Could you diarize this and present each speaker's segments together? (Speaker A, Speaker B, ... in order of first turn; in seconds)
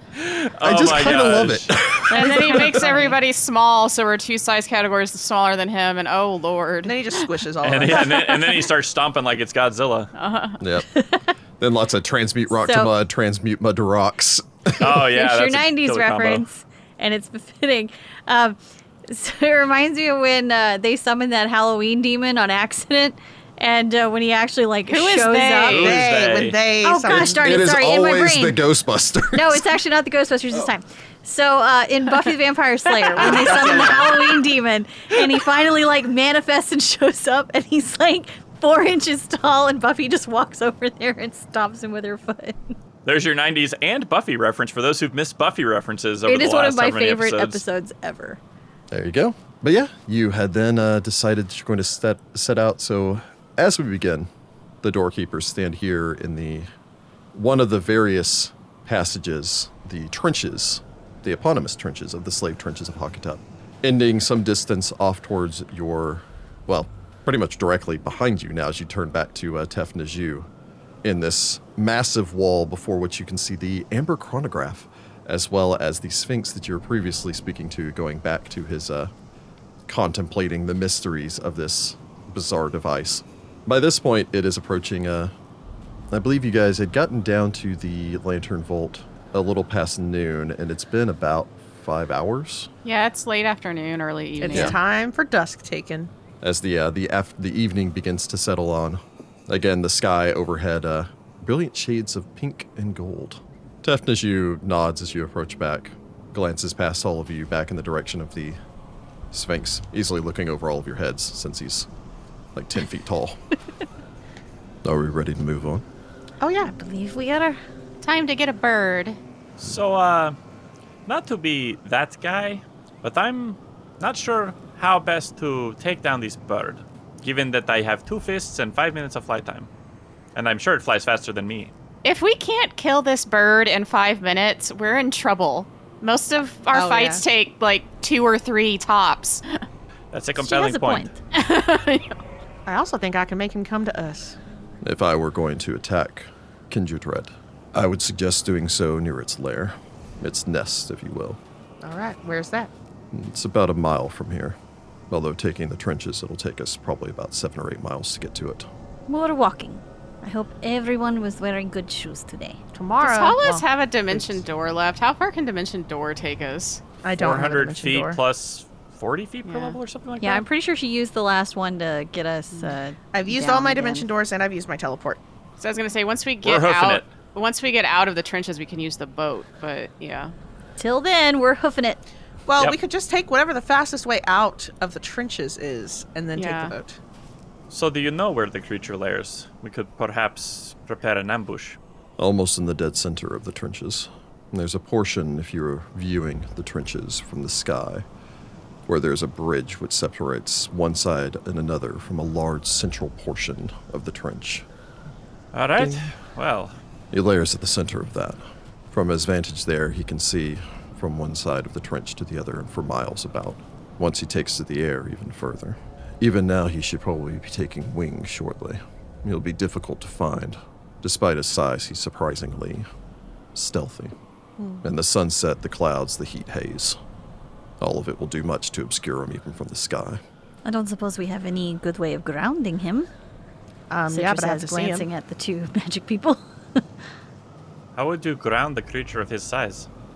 Speaker A: 0.1-2.0, 7.6-10.1, 14.8-16.4, 25.6-26.6, 43.0-47.6, 119.6-120.3, 121.1-129.7, 130.3-131.7, 140.1-141.1, 167.2-170.4, 176.4-177.1, 187.7-191.8, 205.5-206.7, 237.9-239.9
Speaker B: 0.6-2.8, 10.6-10.8, 11.6-15.1, 27.2-29.7, 48.9-54.3, 54.8-56.7, 57.3-70.5, 71.0-79.1, 79.9-85.3, 86.1-92.7, 94.5-94.8, 96.4-108.6, 109.3-111.9, 112.5-113.4, 114.8-115.8, 144.8-151.4, 153.1-154.6, 155.1-158.7, 192.2-198.0, 198.9-204.7, 205.8-206.1, 207.1-222.8, 223.5-224.1, 224.8-227.0, 227.8-230.2
Speaker C: 2.1-7.1, 10.1-10.6, 24.9-25.9, 92.8-94.8, 118.0-119.2, 132.0-139.6, 141.3-142.2, 163.0-166.8, 169.4-169.8, 175.6-180.3, 186.3-186.7
Speaker D: 2.2-3.0, 10.9-11.3, 12.5-12.9, 15.0-26.0, 26.8-28.6, 29.3-42.7, 46.2-48.4, 94.4-94.7, 116.7-117.6, 140.4-141.2, 159.1-162.6, 170.2-174.1, 180.8-182.0, 230.6-233.1, 234.1-236.8
Speaker E: 6.8-8.4, 25.6-27.4, 33.1-34.2, 94.4-96.1, 116.4-116.7, 136.7-137.2, 142.7-144.4, 151.8-152.7, 162.7-164.4, 167.0-168.2, 173.1-175.2, 182.5-187.0, 224.6-224.8, 233.9-235.1